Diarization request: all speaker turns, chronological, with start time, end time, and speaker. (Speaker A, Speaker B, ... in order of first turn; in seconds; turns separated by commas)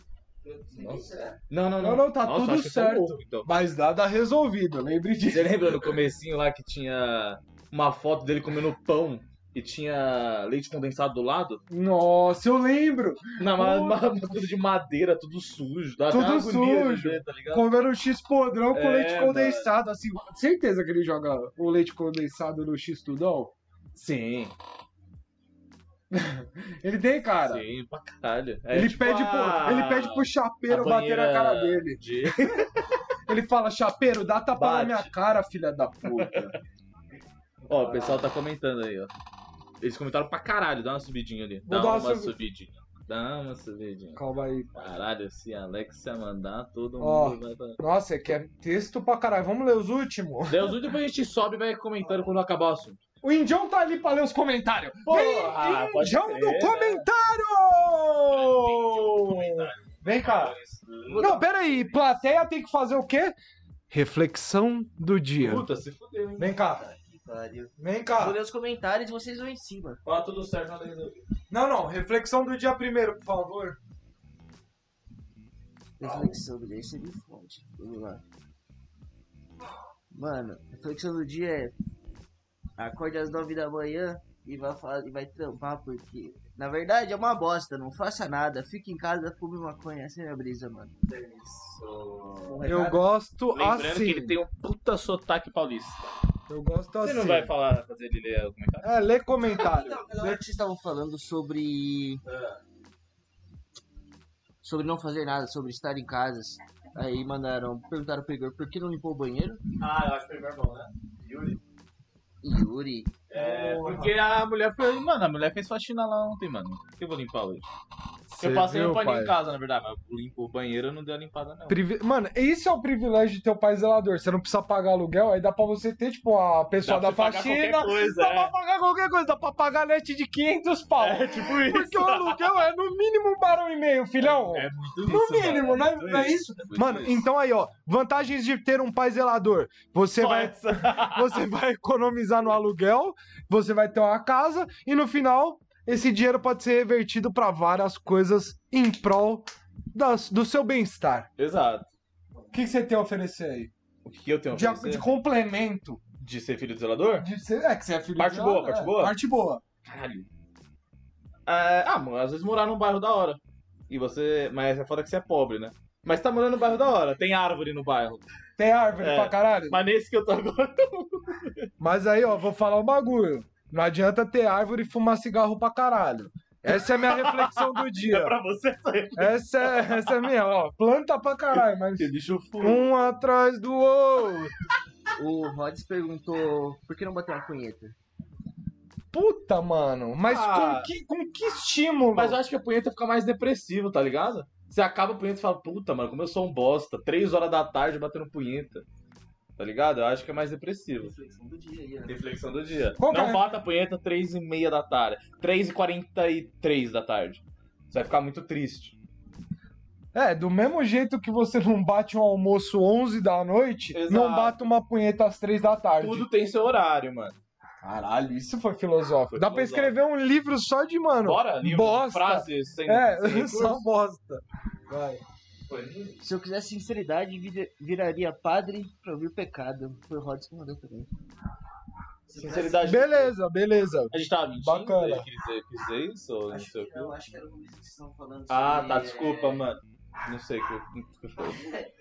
Speaker A: 0.4-1.4, Speaker B: 0.7-3.5, Speaker C: 1.8-6.0, Speaker B: 5.3-11.6, Speaker C: 11.7-14.1, Speaker B: 13.4-17.7, Speaker C: 16.1-23.5, Speaker B: 18.7-19.7, Speaker B: 23.9-24.5, Speaker C: 26.1-27.6, Speaker B: 27.4-33.0, Speaker C: 28.7-32.6, Speaker C: 33.3-36.5, Speaker B: 34.5-35.1, Speaker B: 36.2-36.5, Speaker B: 37.7-39.1, Speaker B: 39.8-44.2, Speaker C: 41.7-42.3, Speaker C: 44.1-44.7, Speaker B: 44.7-47.8, Speaker C: 47.0-50.9, Speaker B: 50.5-53.0, Speaker C: 53.2-60.5, Speaker B: 55.0-57.1, Speaker B: 58.3-61.4, Speaker A: 61.1-61.9, Speaker C: 61.2-63.3, Speaker C: 63.9-65.6, Speaker B: 65.4-66.6, Speaker C: 66.4-66.8, Speaker A: 66.6-70.0, Speaker C: 67.8-68.4, Speaker B: 70.0-71.2, Speaker C: 71.5-73.8, Speaker A: 76.0-78.2, Speaker B: 76.0-76.3, Speaker A: 80.1-81.7, Speaker A: 82.8-91.1, Speaker B: 91.1-92.6, Speaker A: 92.4-93.0, Speaker C: 92.6-94.4, Speaker B: 93.5-96.1, Speaker C: 96.5-97.5, Speaker B: 97.0-98.9, Speaker C: 98.8-100.4, Speaker A: 99.5-102.2, Speaker B: 102.2-102.6, Speaker A: 104.6-109.6, Speaker B: 109.8-111.6, Speaker A: 112.4-113.2, Speaker B: 113.3-117.7, Speaker C: 113.3-114.1, Speaker C: 118.3-119.3, Speaker B: 118.4-121.8, Speaker C: 121.7-151.3, Speaker B: 126.8-128.5, Speaker B: 131.0-132.5, Speaker B: 134.2-137.2, Speaker B: 140.2-141.4, Speaker B: 151.4-151.9, Speaker C: 152.5-153.7, Speaker B: 154.0-155.1, Speaker C: 154.5-156.0, Speaker B: 156.2-157.3, Speaker C: 157.2-159.6, Speaker B: 158.2-159.2, Speaker B: 159.8-160.3, Speaker B: 161.5-168.2, Speaker C: 168.6-169.8, Speaker B: 169.0-171.7, Speaker C: 171.8-178.3, Speaker B: 176.6-180.3, Speaker C: 179.2-184.5, Speaker B: 182.0-182.9, Speaker A: 185.2-187.9, Speaker C: 189.1-192.4, Speaker B: 190.2-190.9, Speaker B: 192.1-198.8, Speaker B: 199.6-201.1, Speaker A: 201.0-202.2, Speaker B: 202.1-209.0, Speaker C: 203.0-203.5, Speaker C: 210.1-216.2, Speaker B: 213.9-214.6, Speaker B: 216.0-217.4, Speaker C: 217.8-225.2, Speaker B: 219.3-219.9, Speaker B: 221.2-223.8, Speaker B: 225.7-226.2, Speaker A: 226.2-231.1, Speaker A: 232.3-233.0, Speaker B: 232.3-233.3, Speaker C: 232.8-235.3, Speaker B: 234.1-237.1, Speaker A: 236.5-239.7, Speaker B: 238.5-241.6, Speaker A: 241.4-241.9